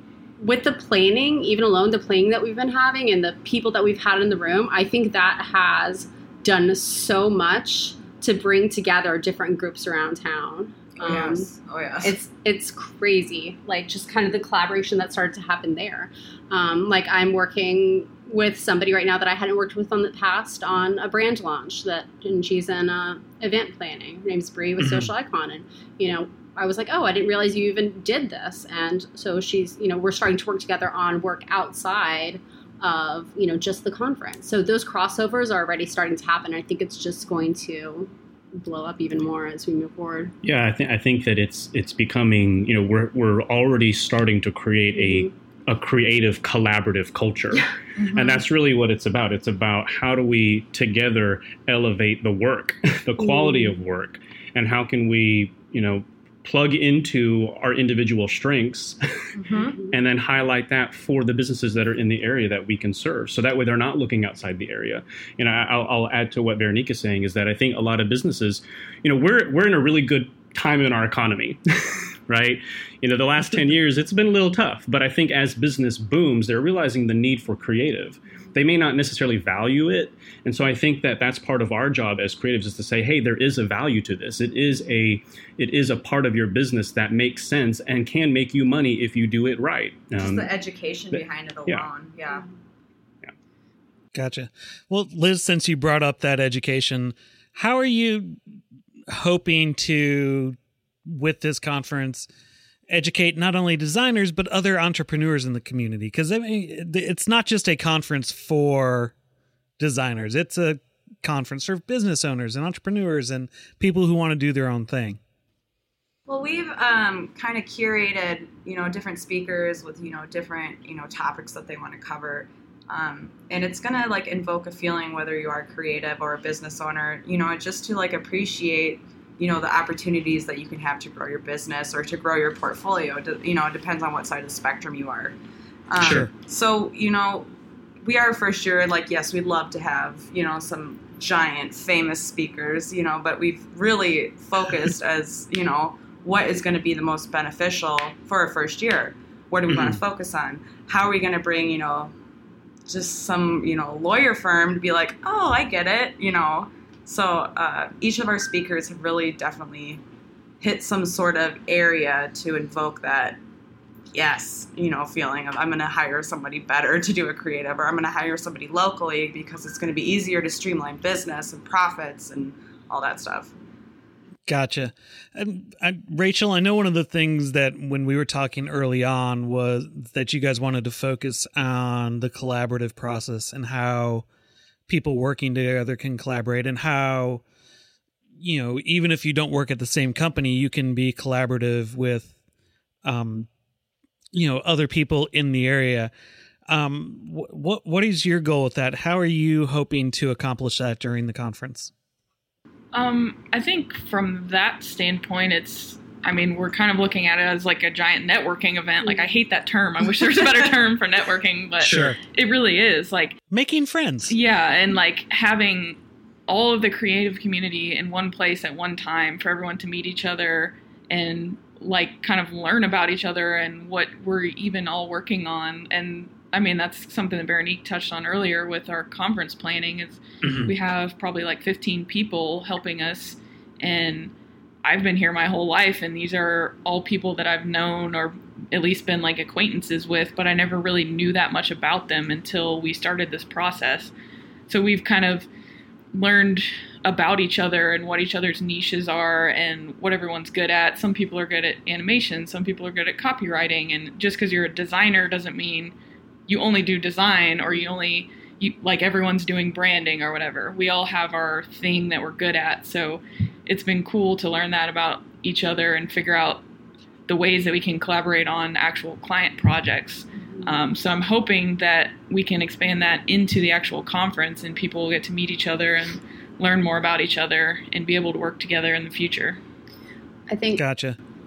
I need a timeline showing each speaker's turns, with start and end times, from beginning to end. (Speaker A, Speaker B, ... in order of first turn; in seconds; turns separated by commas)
Speaker A: 0.4-11.5, Speaker B: 11.0-12.1, Speaker A: 12.0-40.3, Speaker C: 24.8-25.1, Speaker D: 40.4-59.3, Speaker A: 45.0-45.3, Speaker B: 48.0-48.4, Speaker B: 59.4-59.8, Speaker D: 59.9-90.5, Speaker B: 90.1-92.4, Speaker D: 91.1-91.9, Speaker C: 94.1-98.4, Speaker C: 99.1-102.3, Speaker C: 102.9-109.1, Speaker C: 109.8-115.2, Speaker B: 116.3-135.3, Speaker B: 135.9-137.5, Speaker C: 136.0-136.3, Speaker B: 138.0-152.1, Speaker C: 149.7-150.0, Speaker B: 152.8-160.0, Speaker B: 160.6-163.4, Speaker B: 164.1-173.5, Speaker C: 174.5-184.3, Speaker C: 184.9-187.4, Speaker C: 188.4-192.3, Speaker C: 193.0-193.5, Speaker C: 194.3-196.1, Speaker C: 196.7-201.9, Speaker E: 202.9-213.4, Speaker C: 211.8-212.2, Speaker C: 213.5-214.3, Speaker E: 214.3-234.3, Speaker C: 230.4-230.7, Speaker E: 234.8-244.1, Speaker E: 244.7-245.5, Speaker E: 246.1-255.9, Speaker E: 256.5-266.6, Speaker E: 267.3-279.6, Speaker A: 280.5-280.8, Speaker C: 280.7-281.2